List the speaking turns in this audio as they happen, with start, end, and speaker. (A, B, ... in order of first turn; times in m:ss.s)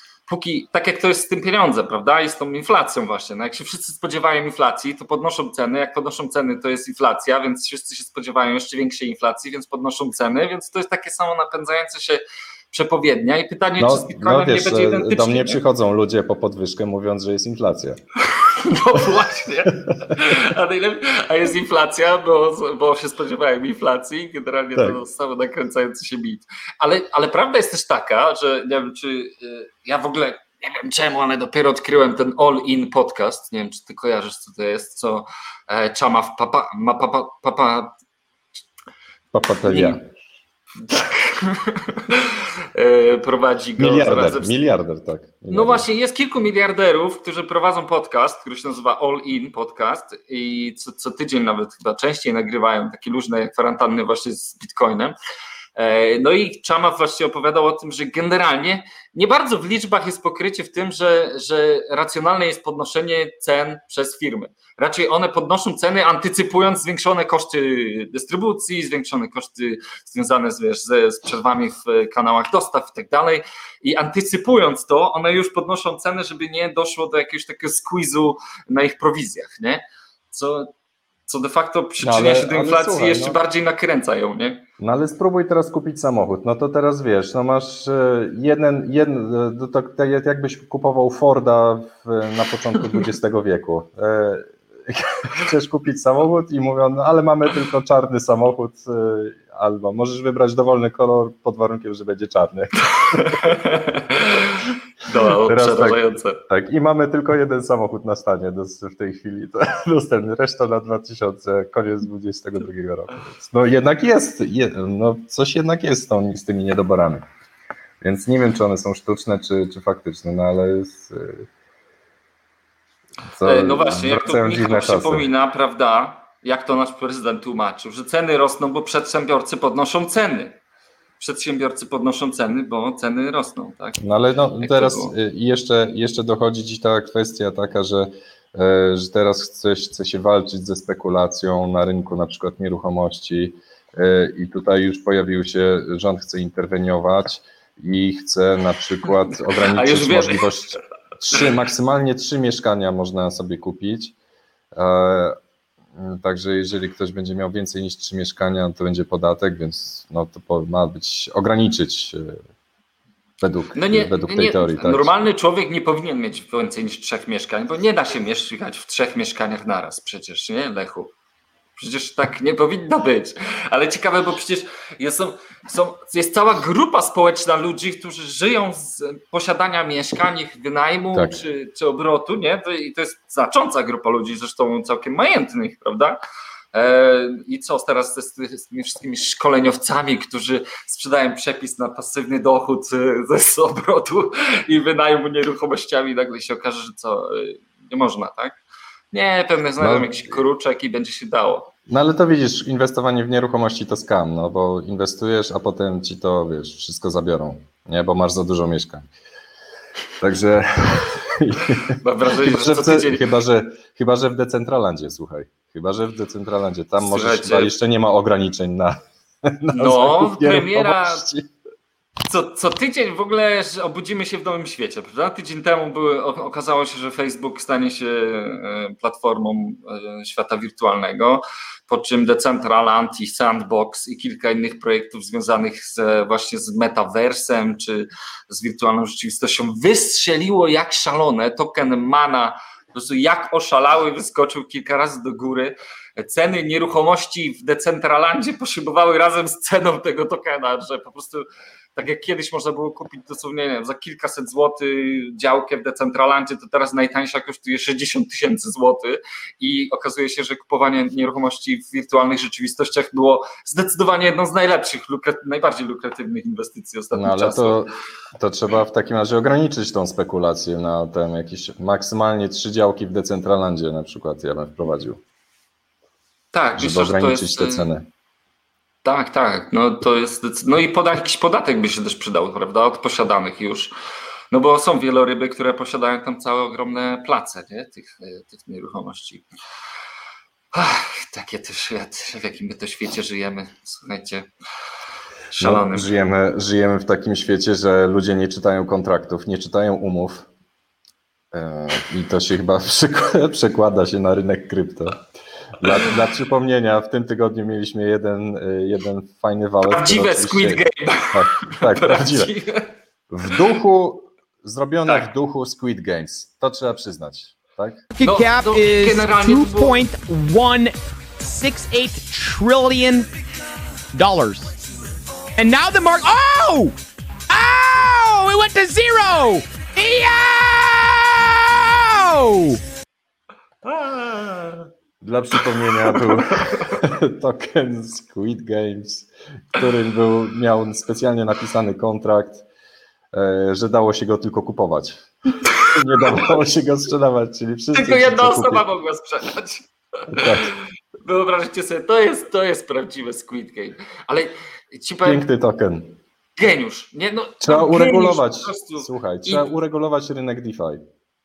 0:00.3-0:15.6 A
0:13.8-0:18.0 B
0:18.2-0:37.9 A
0:39.3-0:40.0 B
0:39.7-0:40.0 A
0:40.8-0:44.6 A
0:43.8-0:45.9 B
0:45.5-0:55.2 A
0:55.8-1:20.7 A
1:21.3-1:24.6 A
1:22.0-1:23.4 B
1:24.8-1:43.6 B
1:43.0-1:46.4 A
1:45.5-1:57.2 B
1:58.0-2:01.5 B
2:03.3-2:05.3 B
2:03.4-2:10.6 A
2:11.2-2:14.0 A
2:14.0-2:34.2 B
2:14.6-2:15.1 A
2:29.4-2:30.5 A
2:34.7-2:35.4 B
2:36.0-2:42.4 B
2:43.4-2:45.1 B
2:43.8-2:51.1 A
2:51.8-3:06.2 A
3:01.1-3:01.4 B
3:06.7-3:18.6 A
3:19.1-3:21.7 A
3:19.8-3:20.2 B
3:21.9-3:29.0 B
3:30.2-3:41.5 B
3:31.8-3:33.3 A
3:37.0-3:37.7 A
3:39.7-3:41.2 A
3:42.3-4:27.8 A
4:27.1-4:35.2 B
4:36.5-4:37.9 A
4:36.8-4:38.1 B
4:39.0-4:43.9 A
4:44.5-4:49.5 A
4:50.7-4:54.5 A
4:55.5-4:56.1 A
4:55.6-5:00.5 B
5:01.5-5:05.3 B
5:05.8-5:12.5 B
5:09.8-5:12.9 A
5:13.3-5:18.0 B
5:18.2-5:23.3 C
5:18.2-5:20.0 A
5:24.1-5:24.7 C
5:25.6-5:27.0 C
5:27.5-5:32.8 C
5:33.8-5:34.9 A
5:35.2-5:42.6 B
5:36.1-5:37.0 A
5:43.3-5:48.8 B
5:46.1-5:46.5 A
5:47.9-5:55.4 A
5:50.3-5:50.7 B
5:55.2-5:56.2 B
5:56.6-5:59.6 A
5:57.6-6:01.0 B